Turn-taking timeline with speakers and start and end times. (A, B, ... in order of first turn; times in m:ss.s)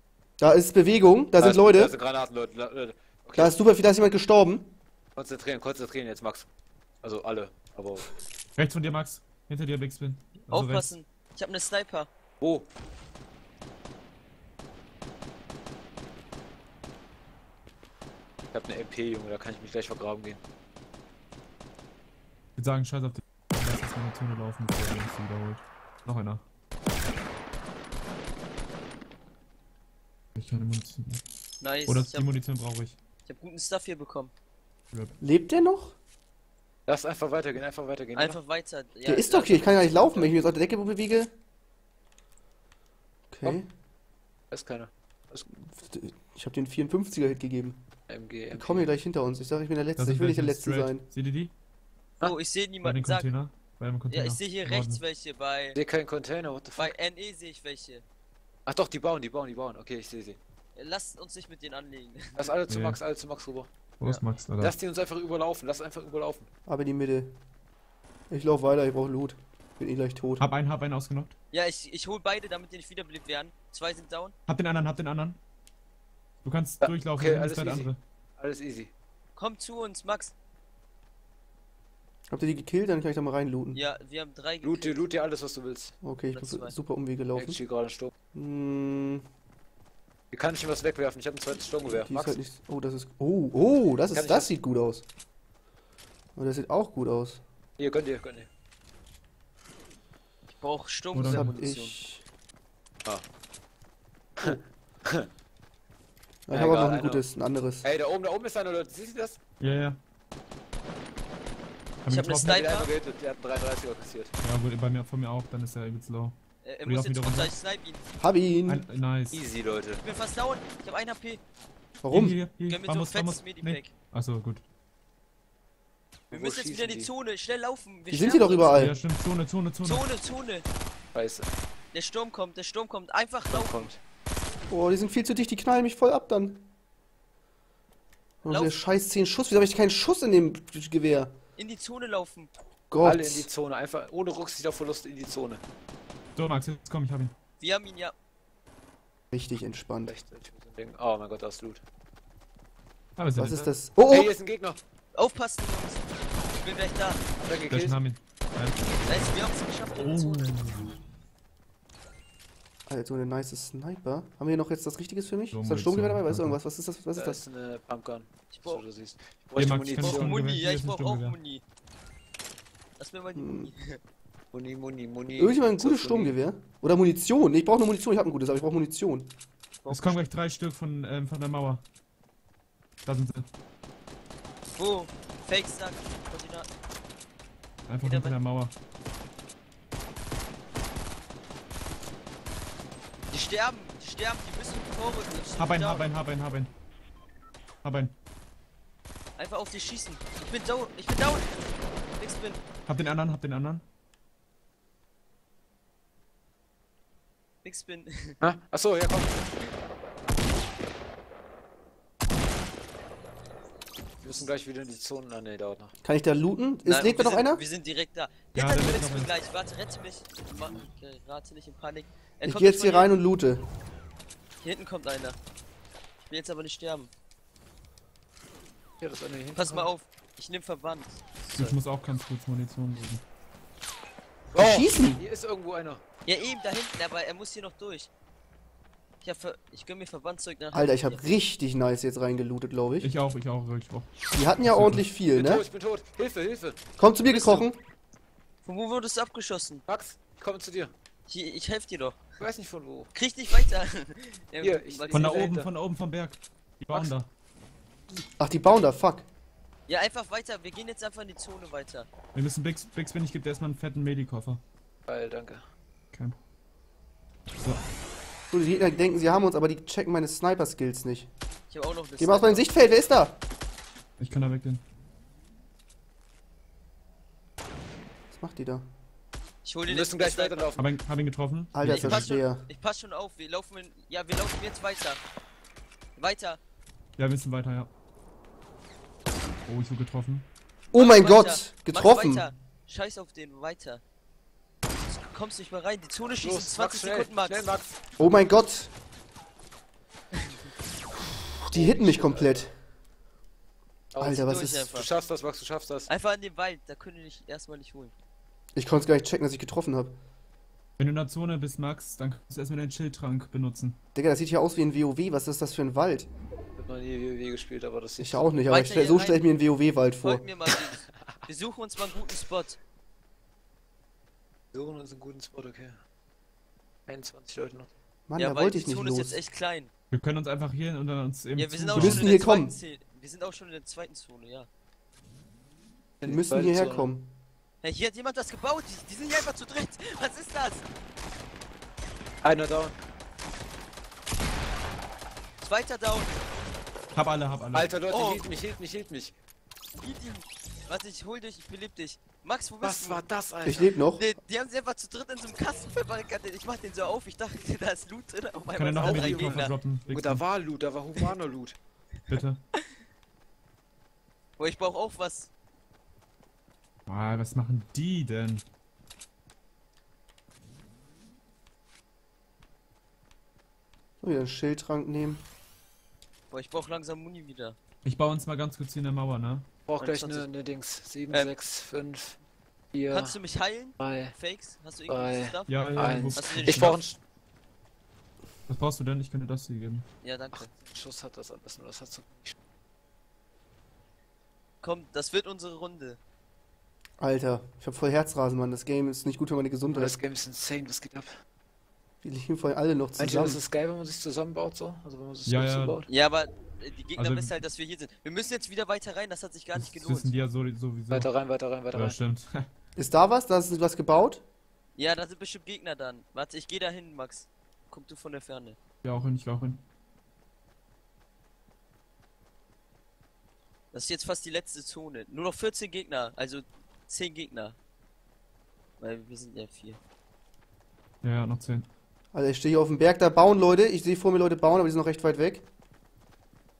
0:00.4-0:01.9 A
0:01.4-0:03.6 B
0:03.4-0:04.7 A
0:05.2-0:06.5 B
0:07.0-0:08.1 B
0:08.6-0:10.9 C
0:10.4-0:12.1 D
0:12.4-0:12.7 B
0:18.5-0:20.4 B
0:22.6-0:26.4 C
0:30.4-0:31.2 C
0:31.6-0:32.3 D
0:31.8-0:33.0 C
0:33.2-0:34.3 D
0:35.2-0:36.0 A
0:36.9-0:38.4 B
0:38.1-0:40.3 D
0:39.0-0:41.3 A
0:43.3-0:43.7 A
0:44.5-0:45.4 B
0:45.5-0:47.8 A
0:48.1-0:48.9 B
0:48.5-0:51.1 A
0:50.0-0:51.5 C
0:52.2-0:53.3 D
0:52.8-0:55.0 C
0:54.1-0:55.8 D
0:55.7-0:56.9 B
0:56.8-0:58.0 D
0:58.6-1:00.4 B
1:00.7-1:02.5 D
1:02.4-1:06.5 B
1:02.7-1:03.0 C
1:04.0-1:04.7 C
1:06.7-1:07.3 A
1:08.3-1:10.4 A
1:10.4-1:11.3 C
1:11.5-1:14.3 D
1:14.5-1:15.4 C
1:16.4-1:18.0 C
1:16.8-1:18.9 B
1:19.4-1:20.3 D
1:22.3-1:23.8 A
1:23.7-1:25.0 D
1:24.6-1:25.9 B
1:26.0-1:27.6 A
1:26.3-1:26.7 D
1:27.3-1:28.1 B
1:28.3-1:29.2 A
1:30.3-1:32.4 B
1:32.0-1:35.0 A
1:34.1-1:34.5 B
1:36.4-1:37.4 A
1:37.8-1:38.5 B
1:40.5-1:42.0 D
1:41.1-1:41.6 C
1:41.2-1:42.2 A
1:44.4-1:45.3 B
1:46.5-1:47.9 A
1:46.5-1:47.2 B
1:47.8-1:49.4 B
1:49.6-1:50.0 C
1:52.0-1:52.6 C
1:52.0-1:52.9 D
1:52.4-1:54.3 B
1:54.4-1:57.5 C
1:56.6-1:58.0 D
1:58.2-1:58.8 A
1:58.7-1:59.4 C
1:59.3-2:00.0 B
2:00.0-2:01.4 D
2:02.0-2:02.4 A
2:02.1-2:04.6 C
2:02.6-2:03.9 D
2:06.3-2:08.9 D
2:06.3-2:07.1 B
2:08.1-2:08.9 A
2:08.7-2:10.0 C
2:09.8-2:10.6 D
2:11.1-2:11.5 B
2:11.9-2:13.9 D
2:13.5-2:14.0 B
2:14.7-2:16.6 A
2:18.4-2:21.3 A
2:18.4-2:18.8 D
2:21.6-2:22.5 D
2:22.9-2:23.5 A
2:23.0-2:25.6 B
2:26.3-2:27.3 C
2:27.6-2:28.1 D
2:29.3-2:30.1 A
2:30.0-2:31.8 B
2:33.2-2:33.7 C
2:33.4-2:34.3 A
2:34.0-2:34.8 B
2:35.1-2:37.2 D
2:37.4-2:37.9 B
2:37.7-2:39.4 C
2:39.0-2:40.5 D
2:40.0-2:40.9 C
2:42.9-2:47.4 A
2:45.5-2:46.6 C
2:47.1-2:50.4 B
2:48.5-2:48.8 D
2:49.6-2:51.4 C
2:49.9-2:51.6 D
2:53.0-2:54.0 D
2:53.3-2:53.7 A
2:54.5-2:56.4 B
2:55.4-2:59.3 A
2:59.8-3:00.2 D
2:59.9-3:01.8 C
3:03.0-3:03.5 C
3:04.7-3:06.7 D
3:07.9-3:08.7 C
3:08.0-3:08.4 D
3:13.3-3:16.1 D
3:15.6-3:16.7 C
3:17.8-3:18.1 C
3:19.4-3:22.6 D
3:22.8-3:23.8 C
3:27.6-3:28.4 D
3:28.4-3:29.4 B
3:34.2-3:35.9 B
3:36.0-3:37.6 A
3:36.8-3:43.2 D
3:38.5-3:39.3 C
3:42.4-3:43.6 A
3:44.6-3:45.4 D
3:46.2-3:47.1 D
3:49.0-3:49.9 B
3:49.5-3:51.8 D
3:51.6-3:53.2 C
3:54.5-3:56.0 B
3:54.6-3:55.2 A
3:56.2-3:58.1 D
3:59.2-4:01.2 D
4:00.7-4:03.1 A
4:03.0-4:05.1 C
4:04.3-4:05.6 A
4:05.3-4:06.8 B
4:07.0-4:07.8 A
4:07.2-4:07.7 D
4:08.6-4:09.8 D
4:09.9-4:10.9 B
4:11.3-4:12.2 D
4:12.4-4:13.1 B
4:13.1-4:15.4 D
4:14.6-4:15.7 B
4:15.1-4:17.3 C
4:18.4-4:19.3 A
4:19.9-4:22.1 D
4:22.3-4:24.6 C
4:25.1-4:25.6 B
4:28.5-4:31.3 A
4:31.7-4:32.7 D
4:32.2-4:33.4 A
4:34.2-4:34.8 C
4:38.3-4:38.9 A
4:39.6-4:40.7 D
4:39.9-4:40.9 B
4:40.8-4:42.3 C
4:41.7-4:42.7 A
4:41.8-4:45.2 D
4:46.2-4:46.6 D
4:47.2-4:47.9 C
4:49.6-4:50.5 C
4:50.9-4:52.5 A
4:50.9-4:54.0 D
4:55.1-4:57.8 D
4:56.3-4:58.0 B
4:58.2-4:58.9 A
5:01.6-5:02.8 A
5:01.7-5:02.7 B
5:04.1-5:06.1 B
5:04.2-5:04.8 A
5:04.5-5:05.1 D
5:06.1-5:08.1 D
5:08.7-5:10.1 A
5:11.0-5:14.0 C
5:14.1-5:16.3 A
5:16.8-5:18.5 B
5:18.2-5:20.5 A
5:18.7-5:19.4 D
5:20.2-5:22.8 D
5:24.7-5:26.0 B
5:27.1-5:27.9 B
5:28.3-5:29.4 A
5:28.4-5:29.9 D
5:30.1-5:32.3 C
5:31.5-5:34.7 D
5:32.0-5:32.7 A
5:36.2-5:37.1 B
5:36.2-5:37.3 A
5:37.8-5:40.8 D
5:42.4-5:43.0 B
5:45.6-5:46.3 D
5:47.1-5:47.9 C
5:47.7-5:49.3 B
5:48.1-5:48.5 D
5:50.0-5:53.2 D
5:52.8-5:53.9 B
5:53.6-5:54.2 A
5:54.1-5:59.7 D
5:58.7-6:00.4 C
5:59.0-6:01.8 B
6:02.3-6:02.6 C
6:04.6-6:05.5 D
6:07.1-6:08.6 C
6:14.2-6:15.4 A
6:16.5-6:17.8 D
6:18.0-6:19.6 C
6:19.9-6:22.4 B
6:20.0-6:20.5 D
6:22.9-6:23.4 B
6:23.1-6:27.0 D
6:24.0-6:24.3 B
6:25.1-6:27.2 B
6:25.7-6:27.0 C
6:28.7-6:30.0 C
6:30.2-6:30.7 D
6:30.5-6:32.5 B
6:34.8-6:36.2 D
6:37.2-6:40.2 A
6:39.9-6:41.3 B
6:42.2-6:43.6 A
6:43.2-6:46.1 B
6:45.4-6:46.0 C
6:46.1-6:50.3 D
6:47.2-6:47.5 C
6:49.7-6:51.3 C
6:51.1-6:52.2 B
6:51.9-6:52.7 C
6:53.0-6:54.4 A
6:55.0-6:58.8 D
6:59.0-6:59.8 C
7:03.9-7:07.8 D
7:09.0-7:10.0 D
7:11.2-7:11.8 C
7:12.3-7:15.6 A